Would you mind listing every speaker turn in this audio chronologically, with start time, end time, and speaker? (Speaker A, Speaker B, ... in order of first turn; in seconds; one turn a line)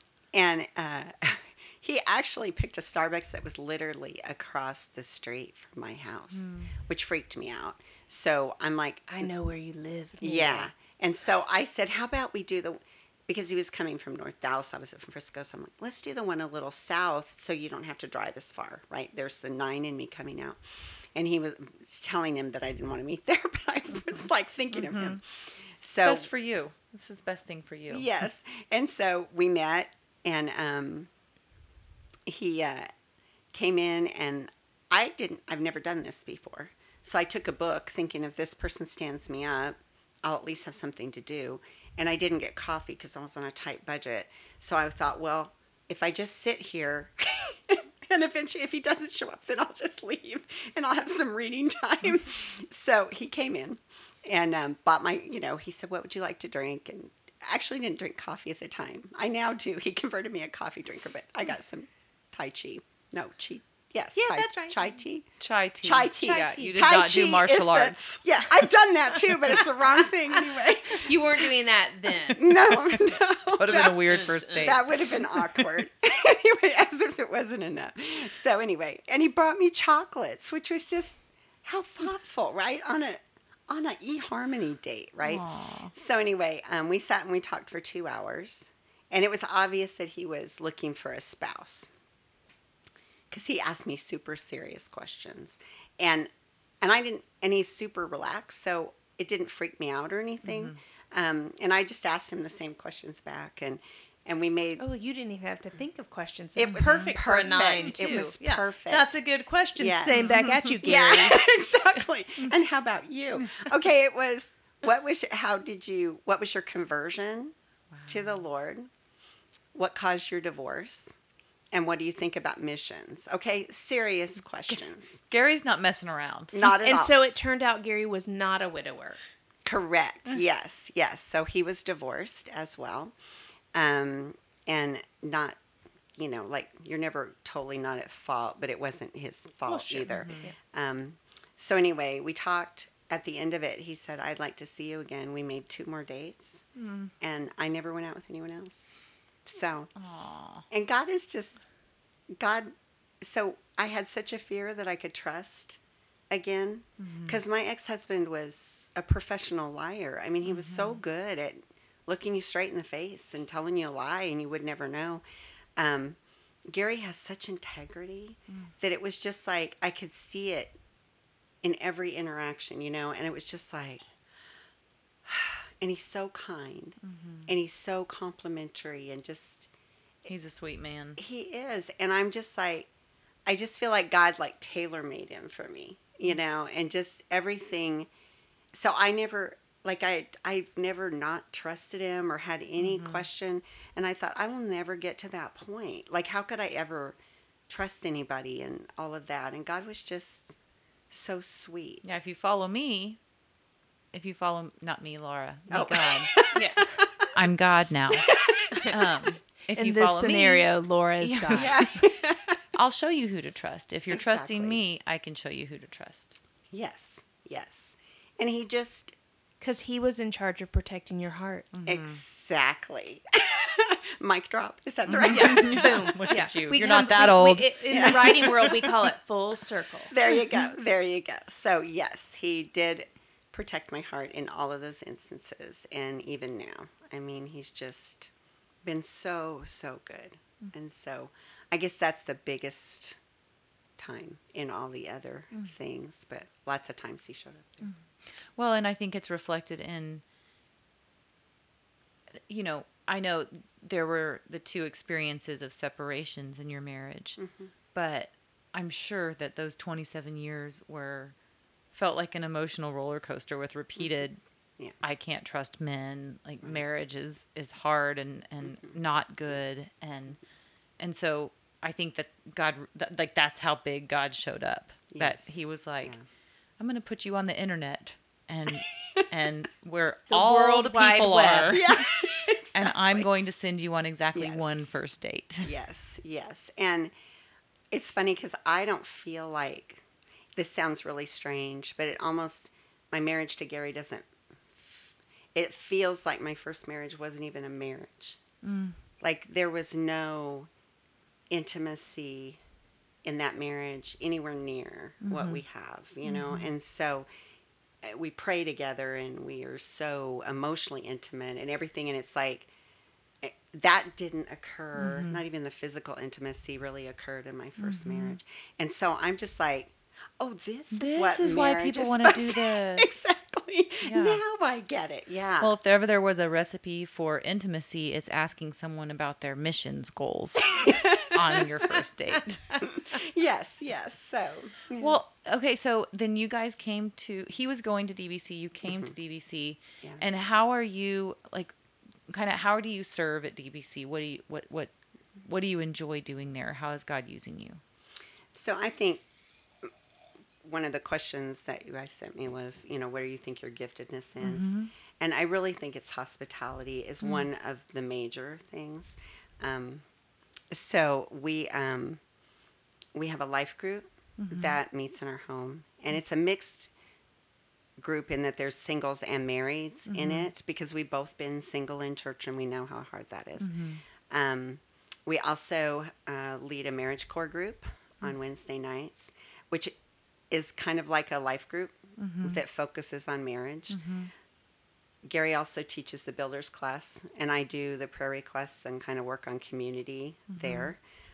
Speaker A: 0.3-9.3
Speaker B: 6.3-6.7
Speaker C: 9.1-10.7
Speaker A: 10.2-20.6
Speaker A: 21.1-25.2
Speaker B: 24.7-25.2
Speaker A: 25.8-26.3
Speaker B: 26.0-28.1
Speaker A: 27.9-31.1
Speaker A: 32.2-32.9
Speaker A: 33.5-65.3
Speaker C: 64.2-64.8
Speaker B: 65.4-68.4
Speaker A: 65.8-71.5
Speaker C: 66.2-66.7
Speaker C: 71.0-72.5
Speaker A: 72.3-91.9
Speaker B: 72.5-75.7
Speaker C: 74.0-74.7
Speaker B: 85.2-85.9
Speaker A: 93.3-104.8
Speaker B: 100.4-100.8
Speaker C: 104.8-111.4
Speaker A: 106.5-109.1
Speaker B: 106.7-107.1
Speaker B: 107.9-108.3
Speaker A: 109.8-117.5
Speaker B: 110.1-110.8
Speaker B: 117.9-118.3
Speaker A: 118.1-118.9
Speaker A: 119.7-121.2
Speaker A: 121.7-125.2
Speaker B: 125.3-126.6
Speaker A: 126.5-127.1
Speaker C: 126.6-129.2
Speaker A: 129.6-133.1
Speaker A: 133.7-135.6
Speaker A: 136.2-146.6
Speaker C: 139.7-140.6
Speaker B: 140.1-140.5
Speaker B: 146.7-147.1
Speaker A: 147.2-148.9
Speaker A: 149.4-149.9
Speaker B: 149.9-150.7
Speaker A: 150.7-151.6
Speaker A: 152.3-152.7
Speaker A: 153.2-155.8
Speaker A: 156.3-165.2
Speaker B: 157.0-157.4
Speaker B: 160.4-161.0
Speaker A: 165.8-170.8
Speaker A: 171.6-174.1
Speaker A: 175.2-179.7
Speaker B: 177.0-177.5
Speaker B: 180.3-181.2
Speaker A: 181.2-182.9
Speaker A: 183.4-188.1
Speaker A: 188.7-197.2
Speaker B: 192.8-193.2
Speaker A: 197.7-200.6
Speaker A: 201.1-202.2
Speaker B: 202.0-203.2
Speaker B: 204.1-206.5
Speaker A: 205.7-207.3
Speaker C: 206.5-206.8
Speaker B: 207.3-208.4
Speaker A: 208.3-208.9
Speaker C: 208.7-209.0
Speaker B: 208.9-210.7
Speaker C: 209.7-212.1
Speaker B: 211.2-211.8
Speaker A: 211.5-212.6
Speaker B: 212.7-216.4
Speaker A: 214.1-214.8
Speaker A: 216.7-219.2
Speaker C: 219.6-221.7
Speaker B: 221.7-222.2
Speaker A: 221.8-226.3
Speaker B: 225.1-228.1
Speaker C: 225.3-230.1
Speaker A: 227.9-229.1
Speaker A: 230.1-238.3
Speaker A: 238.8-243.2
Speaker A: 244.0-247.9
Speaker B: 248.6-250.2
Speaker B: 252.5-257.4
Speaker A: 257.4-257.7
Speaker B: 257.9-261.3
Speaker B: 261.9-264.4
Speaker B: 265.0-270.4
Speaker B: 271.0-276.1
Speaker A: 275.1-276.2
Speaker B: 276.8-282.0
Speaker A: 278.8-279.2
Speaker C: 280.3-281.8
Speaker A: 281.7-283.3
Speaker B: 282.7-285.7
Speaker A: 284.3-284.9
Speaker A: 285.6-287.1
Speaker A: 287.9-290.0
Speaker A: 290.6-298.4
Speaker B: 298.6-299.0
Speaker A: 299.2-300.7
Speaker A: 301.5-302.6
Speaker A: 303.2-307.3
Speaker B: 305.2-305.6
Speaker B: 306.2-306.7
Speaker A: 308.0-312.7
Speaker A: 313.4-325.7
Speaker B: 314.9-315.4
Speaker B: 317.8-318.4
Speaker B: 320.9-323.3
Speaker B: 324.0-324.4
Speaker B: 325.6-332.8
Speaker A: 330.6-331.9
Speaker A: 332.9-335.2
Speaker B: 335.0-341.7
Speaker A: 338.8-339.1
Speaker B: 342.3-347.8
Speaker A: 348.5-349.2
Speaker A: 350.6-360.0
Speaker B: 354.4-354.9
Speaker A: 360.7-362.2
Speaker A: 363.1-366.9
Speaker B: 364.4-364.8
Speaker A: 368.0-380.0
Speaker B: 370.1-370.5
Speaker B: 373.6-374.0
Speaker A: 380.5-384.0
Speaker B: 382.2-382.6
Speaker B: 383.9-384.3
Speaker A: 385.2-391.0
Speaker B: 390.5-390.9